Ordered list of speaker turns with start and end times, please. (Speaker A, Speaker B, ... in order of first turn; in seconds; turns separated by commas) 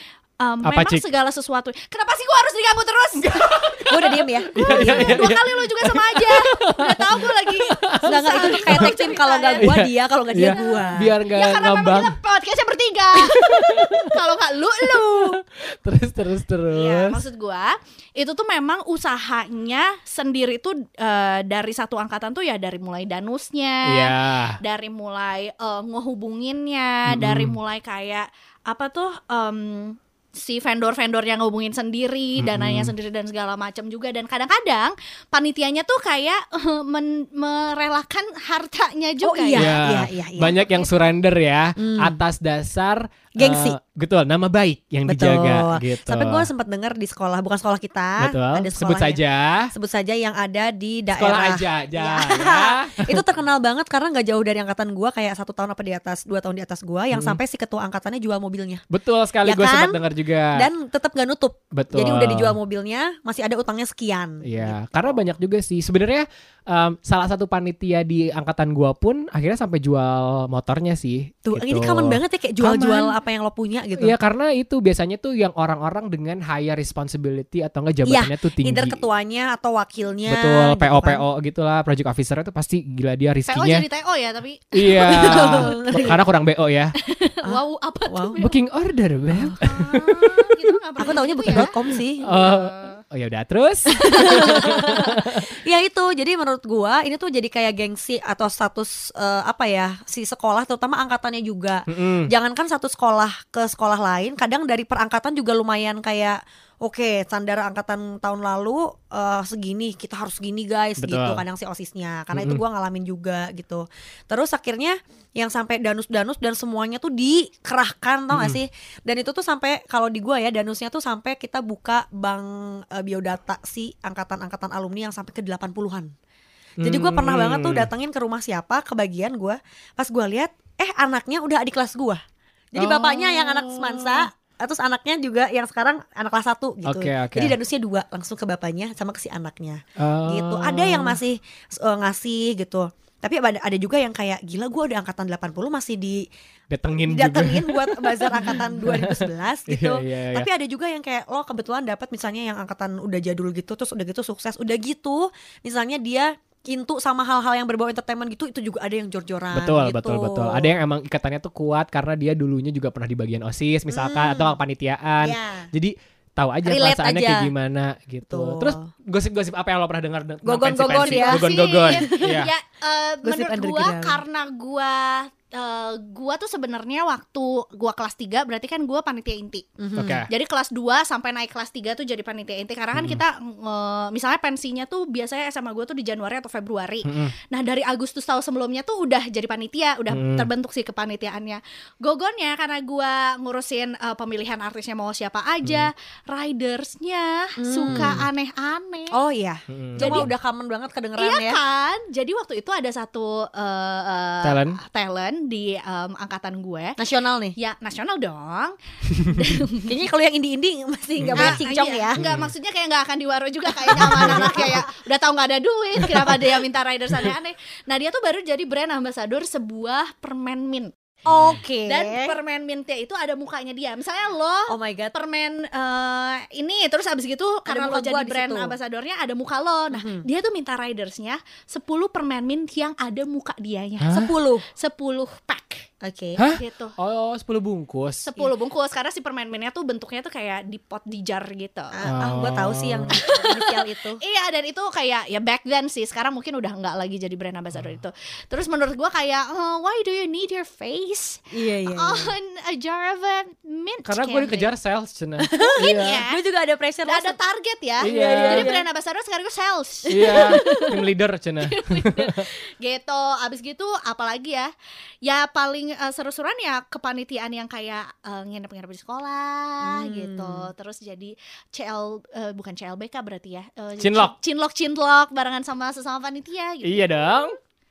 Speaker A: 0.4-3.5, Speaker B: 0.6-1.0, Speaker B: 3.2-8.9, Speaker C: 3.9-5.3, Speaker A: 4.6-9.7, Speaker C: 8.0-11.1, Speaker B: 9.6-12.2, Speaker A: 10.4-15.4, Speaker B: 13.2-14.2, Speaker B: 15.0-17.3, Speaker A: 16.7-39.8, Speaker B: 23.9-24.6, Speaker B: 27.1-27.6, Speaker B: 32.4-32.9, Speaker C: 39.2-40.6, Speaker B: 39.5-46.5, Speaker C: 41.8-42.2, Speaker C: 43.4-43.8, Speaker C: 45.1-49.2, Speaker B: 48.2-49.7, Speaker C: 49.7-58.8, Speaker B: 51.2-53.2, Speaker B: 57.1-57.4, Speaker B: 58.9-60.7, Speaker C: 59.5-60.0, Speaker C: 60.5-65.2, Speaker B: 61.7-62.6, Speaker B: 64.4-73.1, Speaker C: 71.5-74.2, Speaker B: 74.0-79.0, Speaker C: 78.1-81.2, Speaker B: 80.3-83.8, Speaker A: 83.5-85.8, Speaker B: 84.7-87.0, Speaker C: 85.0-86.2, Speaker A: 87.0-88.5, Speaker C: 87.4-88.4, Speaker B: 88.4-90.5, Speaker C: 89.3-90.0, Speaker A: 89.6-91.7, Speaker C: 91.0-92.3, Speaker B: 91.5-95.5, Speaker A: 92.2-93.0, Speaker A: 93.9-95.1, Speaker C: 94.0-126.1, Speaker B: 101.9-102.3, Speaker B: 111.0-111.4, Speaker B: 112.3-112.6, Speaker B: 118.3-118.6, Speaker B: 126.8-127.9, Speaker C: 126.8-132.2, Speaker C: 132.7-146.2, Speaker B: 132.8-134.3, Speaker B: 136.8-137.6, Speaker B: 140.0-141.2, Speaker B: 146.7-150.5, Speaker C: 147.0-160.7, Speaker B: 159.5-172.5, Speaker C: 163.9-164.6, Speaker C: 165.2-165.7, Speaker C: 166.7-167.5, Speaker C: 168.3-168.9, Speaker C: 170.4-172.5, Speaker A: 170.9-199.2, Speaker C: 173.2-174.2, Speaker C: 179.8-180.2, Speaker B: 179.9-180.3, Speaker B: 182.9-183.2, Speaker B: 187.1-187.3, Speaker B: 190.1-190.5, Speaker B: 195.6-195.9, Speaker C: 197.6-198.2, Speaker B: 197.9-198.3, Speaker C: 199.1-201.6, Speaker B: 199.7-200.3, Speaker A: 200.0-200.3, Speaker A: 201.2-207.0, Speaker B: 204.4-204.8, Speaker C: 207.0-207.6, Speaker A: 207.6-209.9, Speaker B: 209.1-209.4, Speaker C: 209.8-212.2, Speaker B: 211.2-211.6, Speaker A: 211.3-220.9, Speaker B: 212.2-212.5, Speaker C: 213.8-214.8, Speaker B: 214.0-214.6, Speaker C: 221.2-222.4, Speaker B: 221.3-221.6, Speaker A: 221.9-235.9, Speaker C: 224.7-225.1, Speaker C: 227.7-228.8, Speaker C: 229.9-230.3, Speaker B: 234.0-234.3, Speaker C: 234.1-234.7, Speaker C: 236.0-236.4, Speaker B: 236.4-238.3, Speaker A: 236.6-236.9, Speaker A: 238.3-241.9, Speaker C: 241.9-244.2, Speaker B: 242.1-243.2, Speaker A: 243.1-254.7, Speaker B: 247.7-248.0, Speaker C: 251.5-252.3, Speaker B: 254.1-256.2, Speaker C: 255.4-257.4, Speaker A: 255.6-256.4, Speaker A: 257.1-261.0, Speaker B: 258.0-258.7, Speaker C: 258.0-258.8, Speaker B: 260.1-262.5, Speaker C: 260.1-260.9, Speaker A: 261.6-264.7, Speaker A: 265.2-277.5, Speaker C: 269.8-270.7, Speaker B: 274.0-274.3, Speaker B: 276.8-277.6